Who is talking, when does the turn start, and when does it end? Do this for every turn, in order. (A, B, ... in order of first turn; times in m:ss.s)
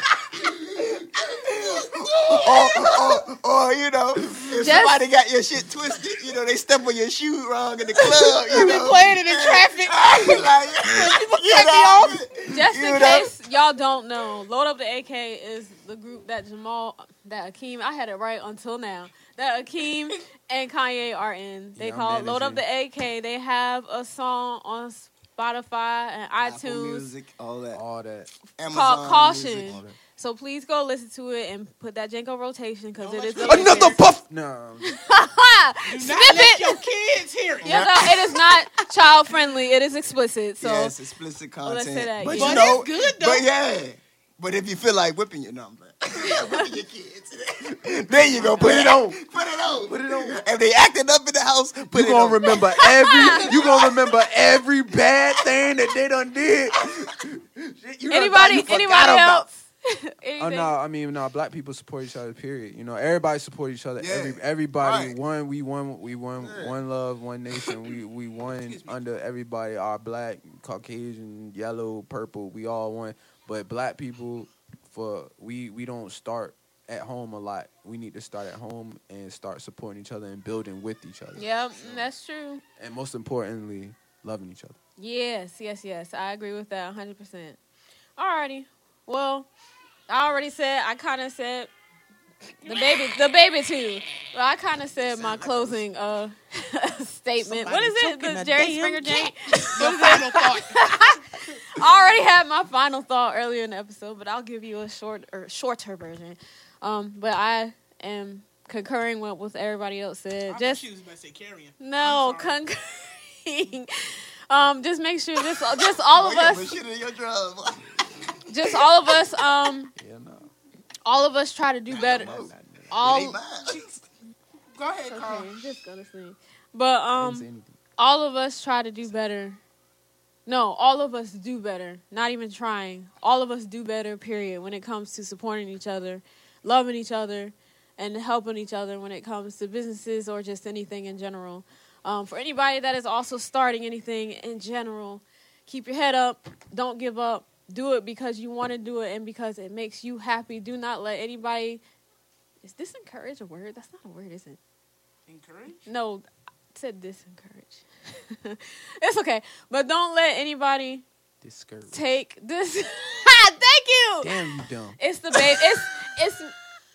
0:00.5-0:13.3 A
0:04.6-0:05.0 B
0:08.0-0:12.2 C
0:12.4-0:27.1 B
0:21.8-0:22.6 D
0:26.4-0:27.8 A
0:27.7-0:28.3 D
0:28.6-0:30.0 A
0:28.7-0:34.0 B
0:33.0-0:34.0 C
0:33.4-0:34.9 D
0:34.8-0:36.8 B
0:35.8-0:37.8 C
0:37.6-0:38.1 A
0:37.6-0:40.9 B
0:40.6-0:52.6 A
0:41.6-0:42.8 B
0:42.3-0:43.5 C
0:46.3-0:46.6 B
0:48.1-0:50.4 D
0:51.9-0:59.4 D
0:52.6-0:53.6 B
0:53.4-0:54.1 A
0:58.1-1:00.7 B
1:00.4-1:22.1 D
1:04.0-1:05.2 A
1:06.4-1:06.8 A
1:08.5-1:09.0 C
1:21.4-1:22.6 B
1:22.8-1:24.8 D
1:25.0-1:27.6 B
1:28.2-1:29.5 B
1:30.1-1:31.7 B
1:32.6-1:50.8 B
1:35.1-1:35.8 C
1:37.4-1:41.2 C
1:50.5-1:52.6 C
1:51.8-1:56.8 B
1:56.1-1:58.4 A
1:58.5-1:59.9 B
2:00.0-2:00.5 D
2:01.0-2:02.4 B
2:01.9-2:04.0 A
2:01.9-2:03.0 D
2:02.9-2:03.4 B
2:04.8-2:05.5 C
2:05.1-2:09.6 B
2:07.1-2:07.8 D
2:10.5-2:31.8 B
2:32.6-2:34.6 B
2:35.3-2:35.9 C
2:35.9-2:41.0 B
2:41.4-2:42.0 D
2:41.9-2:44.4 B
2:44.2-2:45.0 D
2:45.0-2:46.5 B